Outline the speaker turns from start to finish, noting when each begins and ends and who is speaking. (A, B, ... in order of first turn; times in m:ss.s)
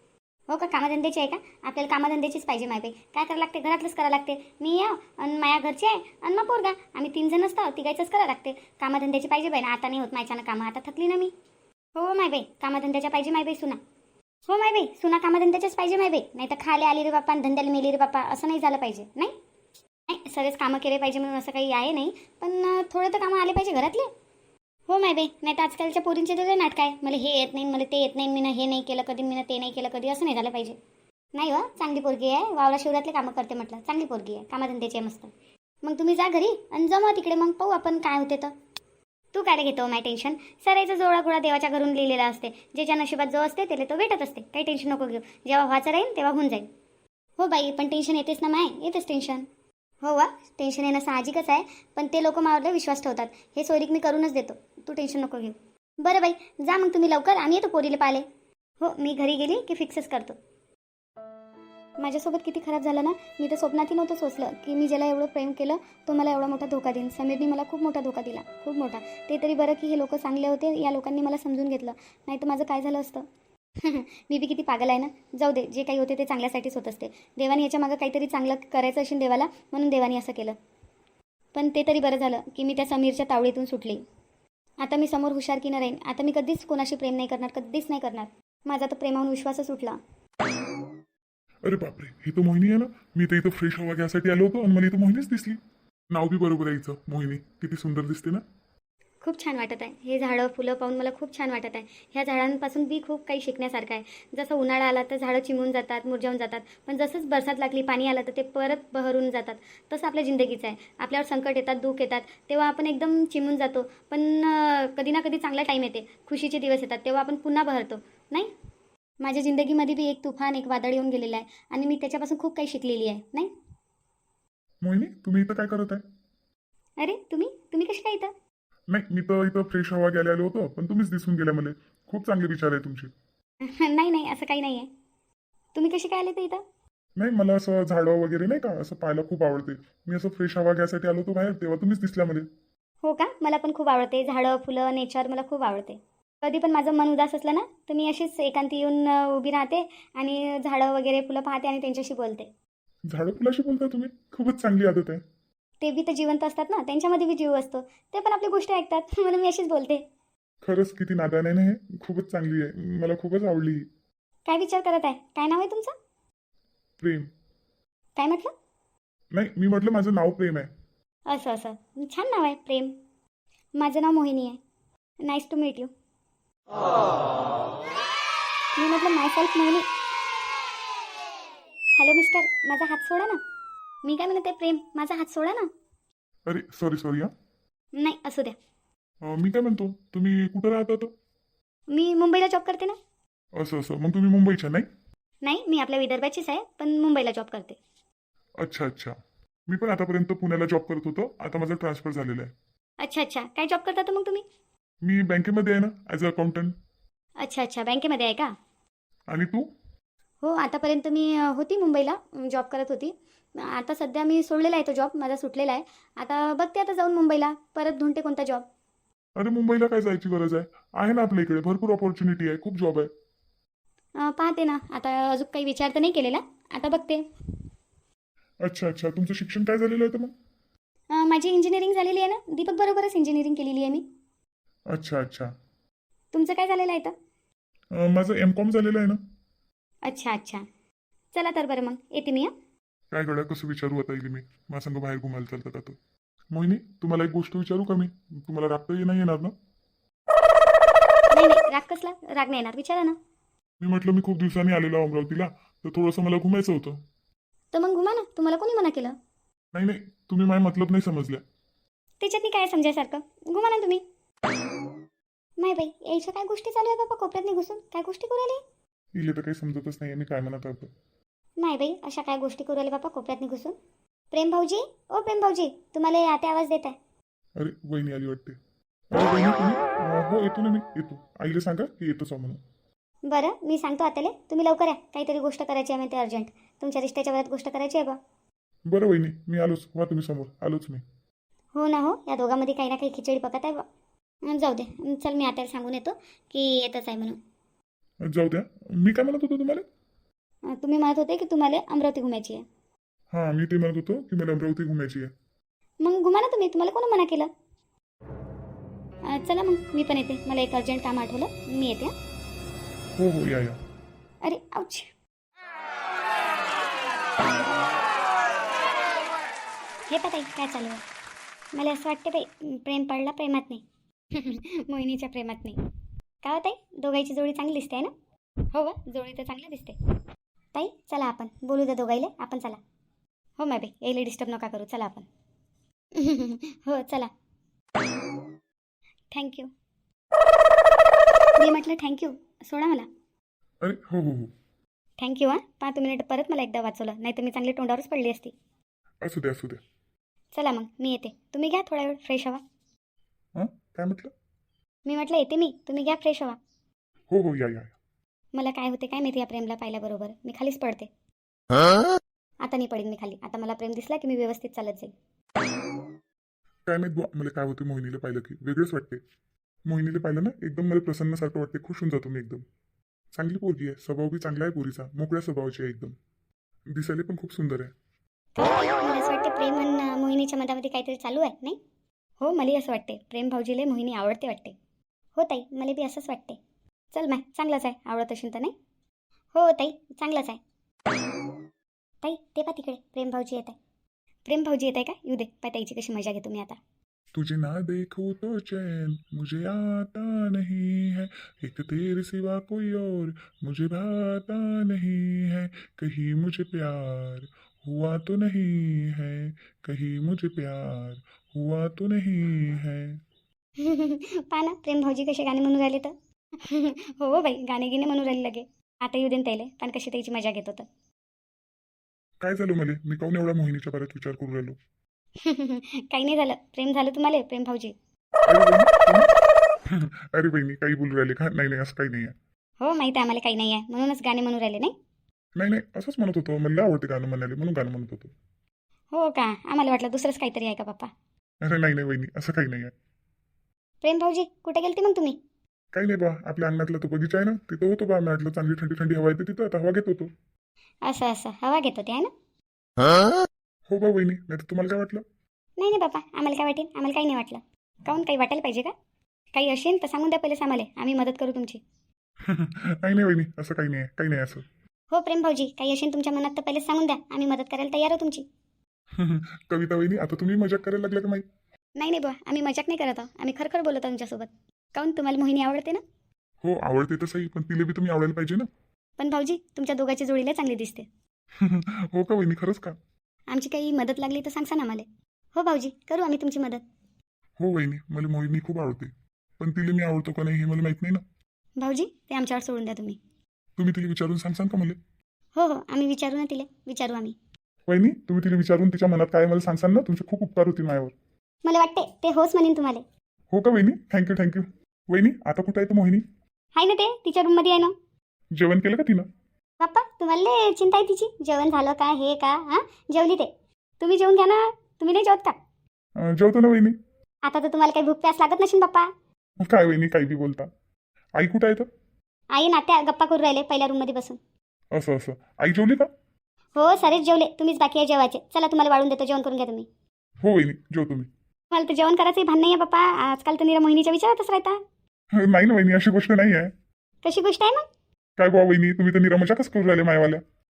0:00.5-0:11.3 A
0:12.0-0:13.8 A
0:14.5-0:19.3 A
0:20.1-0:24.1 A
0:24.9-0:30.8 A
0:31.3-0:35.3 A
0:35.8-0:38.5 A
0:39.3-0:46.7 A
0:47.4-0:49.5 A
0:50.0-0:58.2 A
0:58.8-1:00.4 A
1:02.0-1:13.2 A
1:13.8-1:20.6 A
1:21.5-1:24.0 A
1:24.8-1:30.0 A
1:31.6-1:35.6 B
1:36.1-1:38.4 B
1:39.2-1:58.5 A
1:59.2-2:03.5 A
2:04.8-2:06.0 B
2:07.0-2:08.3 A
2:08.9-2:13.1 B
2:13.6-2:14.9 A
2:15.7-2:16.6 A
2:17.2-2:22.4 B
2:23.0-2:32.5 A
2:33.1-2:35.2 B
2:35.8-2:40.0 A
2:40.6-2:43.8 B
2:44.5-2:45.9 A
2:47.0-2:47.3 B
2:48.2-2:48.5 A
2:49.3-2:50.7 B
2:51.3-2:52.9 A
2:53.8-2:54.6 A
2:55.2-2:55.9 A
2:58.8-2:59.8 A
3:02.0-3:03.4 A
3:04.0-3:05.7 A
3:06.4-3:07.3 B
3:08.0-3:08.5 A
3:09.2-3:11.1 B
3:11.9-3:13.0 A
3:13.6-3:14.9 B
3:15.4-3:17.8 A
3:18.6-3:19.1 B
3:19.7-3:22.5 B
3:23.0-3:24.4 A
3:25.0-3:26.7 B
3:27.4-3:28.5 A
3:29.3-3:29.6 B
3:30.4-3:38.6 A
3:39.4-3:43.1 B
3:44.2-3:47.2 A
3:48.6-3:50.3 B
3:51.1-3:54.0 A
3:54.9-3:55.5 B
3:56.3-3:57.1 A
3:57.9-3:59.2 B
4:00.0-4:00.6 A
4:01.3-4:02.5 A
4:03.1-4:06.0 B
4:06.5-4:09.5 B
4:11.3-4:13.2 A
4:13.8-4:17.0 B
4:17.7-4:19.2 A
4:19.7-4:21.4 B
4:22.2-4:24.0 A
4:25.6-4:28.6 A
4:29.2-4:30.9 B
4:31.6-4:33.7 A
4:34.3-4:36.9 A
4:37.6-4:38.6 B
4:39.1-4:42.6 B
4:43.2-4:48.2 A
4:48.9-4:51.0 B
4:51.7-4:53.8 A
4:54.5-4:57.4 A
4:58.2-4:59.8 B
5:00.7-5:02.6 A
5:03.3-5:05.3 B
5:06.0-5:07.5 A
5:09.3-5:12.1 A
5:13.2-5:13.8 B
5:14.4-5:15.1 A
5:20.1-5:21.0 A
5:21.7-5:25.8 A
5:26.4-5:28.1 A
5:28.7-5:30.0 A
5:30.7-5:32.8 A
5:33.6-5:35.3 A
5:36.1-5:37.3 A
5:39.3-5:39.7 A
5:41.6-5:43.1 A
5:43.8-5:44.5 B
5:45.2-5:48.5 A
5:49.2-5:49.8 B
5:50.5-5:52.6 A
5:53.6-5:54.3 B
5:55.0-5:56.6 A
5:57.3-5:57.9 B
5:58.5-6:01.1 A
6:02.6-6:05.1 A
6:06.8-6:09.2 B
6:09.9-6:12.6 B
6:13.3-6:16.1 B
6:16.9-6:17.9 B
6:18.6-6:21.8 A
6:22.4-6:24.8 A
6:25.4-6:26.6 A
6:27.1-6:28.7 A
6:29.5-6:30.6 A
6:32.2-6:33.8 A
6:34.4-6:36.8 A
6:37.3-6:53.2 B
6:53.8-7:00.8 A
7:02.4-7:04.8 B
7:05.4-7:07.9 A
7:08.5-7:09.3 B
7:09.8-7:12.3 B
7:12.8-7:14.9 A
7:15.6-7:18.3 B
7:19.1-7:21.1 A
7:21.6-7:22.9 B
7:24.0-7:25.4 A
7:25.9-7:30.3 B
7:31.0-7:32.3 A
7:33.9-7:35.2 B
7:35.8-7:38.9 A
7:39.5-7:41.8 A
7:42.4-7:44.6 B
7:45.1-7:48.4 A
7:49.1-7:51.4 B
7:52.0-7:56.0 A
7:56.6-7:58.7 B
7:59.2-8:01.1 A
8:01.6-8:03.0 B
8:03.5-8:06.8 A
8:07.6-8:11.2 B
8:11.8-8:13.2 A
8:13.8-8:15.0 B
8:15.5-8:17.3 A
8:17.9-8:21.1 B
8:21.6-8:23.0 A
8:23.5-8:26.2 B
8:26.8-8:27.9 A
8:28.6-8:29.2 B
8:29.8-8:35.6 A
8:36.2-8:36.9 B
8:37.4-8:39.1 A
8:39.6-8:40.7 B
8:41.4-8:41.9 B
8:42.5-8:44.4 A
8:44.9-8:46.1 B
8:46.8-8:49.9 A
8:50.4-8:51.3 B
8:51.7-8:54.8 A
8:55.3-8:56.7 B
8:57.2-8:57.8 A
8:58.4-9:00.4 B